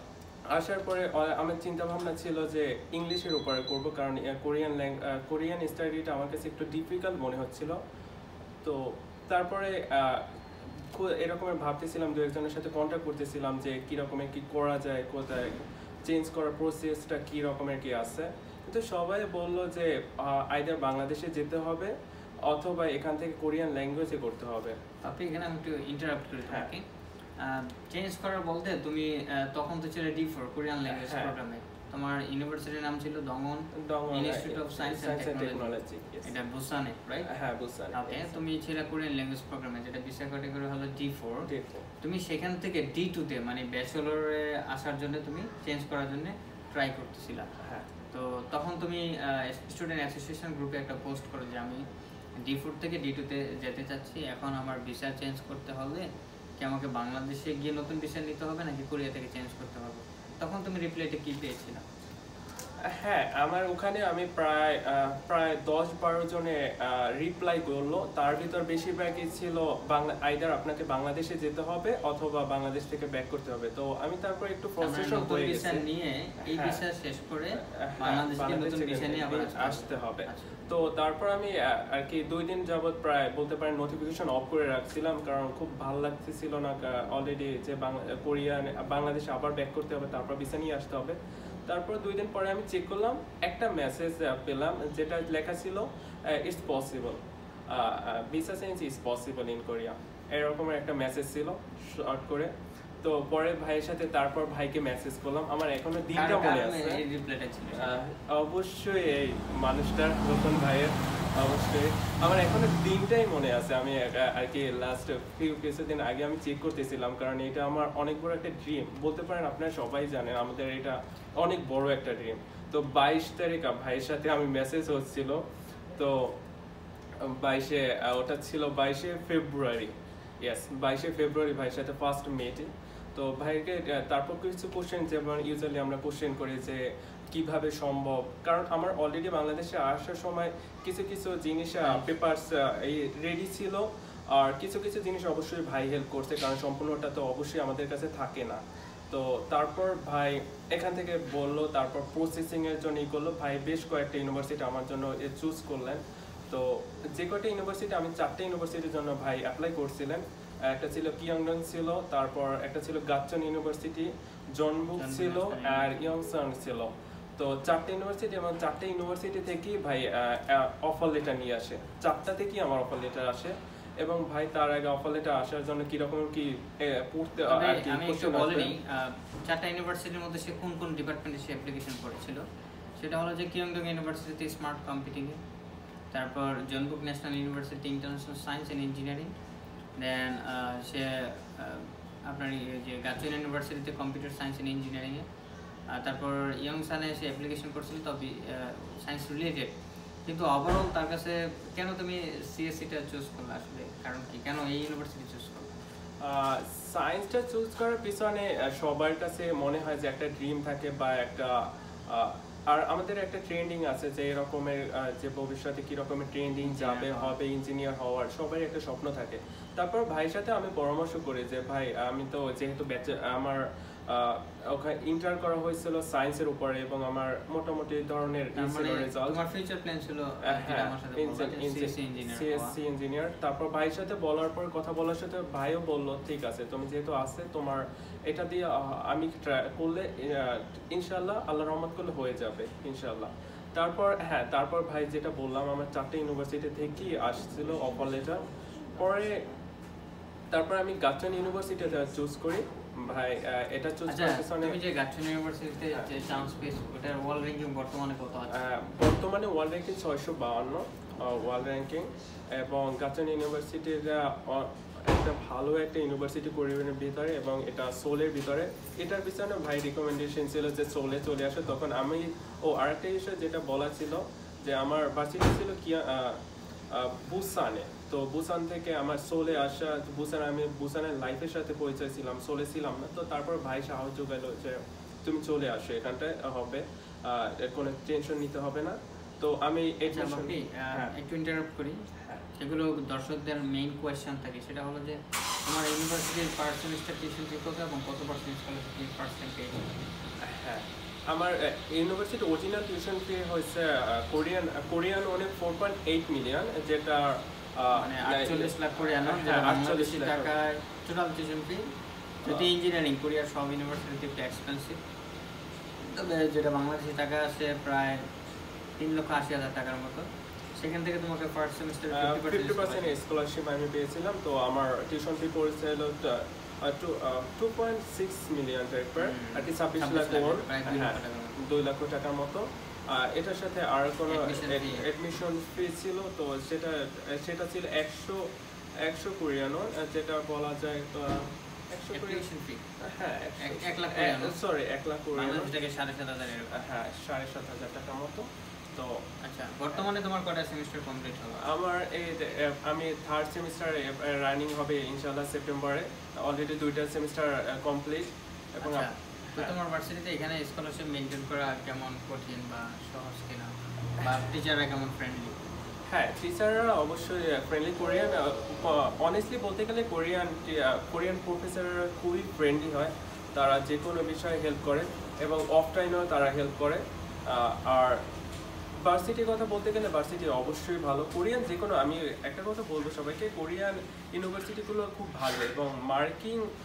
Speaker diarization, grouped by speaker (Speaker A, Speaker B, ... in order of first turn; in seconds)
Speaker A: 0.5-7.8, 8.6-10.3, 10.9-21.9, 22.5-24.8, 30.9-31.3, 33.7-36.3, 37.2-38.4, 41.5-41.9, 47.6-47.9, 62.9-75.8, 76.4-76.8, 77.6-97.2, 97.7-102.5, 103.0-107.0, 107.7-125.4, 126.0-126.3, 127.2-178.7, 206.2-229.4, 230.5-248.4, 248.9-249.4, 250.5-254.8, 258.5-276.4, 276.9-291.1, 300.4-310.5, 312.4-312.7, 322.1-338.4, 339.0-342.4, 343.0-345.7, 346.7-349.2, 351.6-359.7, 366.1-378.2, 379.0-386.6
Speaker B: 25.0-26.8, 27.4-37.3, 37.9-41.5, 42.0-47.5, 48.1-51.8, 52.4-56.1, 56.6-61.9, 74.8-80.5, 106.1-108.0, 164.9-165.9, 177.5-182.4, 183.0-185.4, 186.1-189.3, 190.0-195.2, 195.9-199.7, 200.3-205.8, 216.6-217.4, 228.6-232.7, 254.1-258.6, 290.1-292.0, 292.6-299.8, 307.9-311.9, 312.4-315.0, 316.0-318.2, 319.0-323.2, 329.2-331.6, 334.3-335.0, 342.1-342.8, 343.6-344.6, 345.3-346.8, 349.4-351.6, 358.8-365.5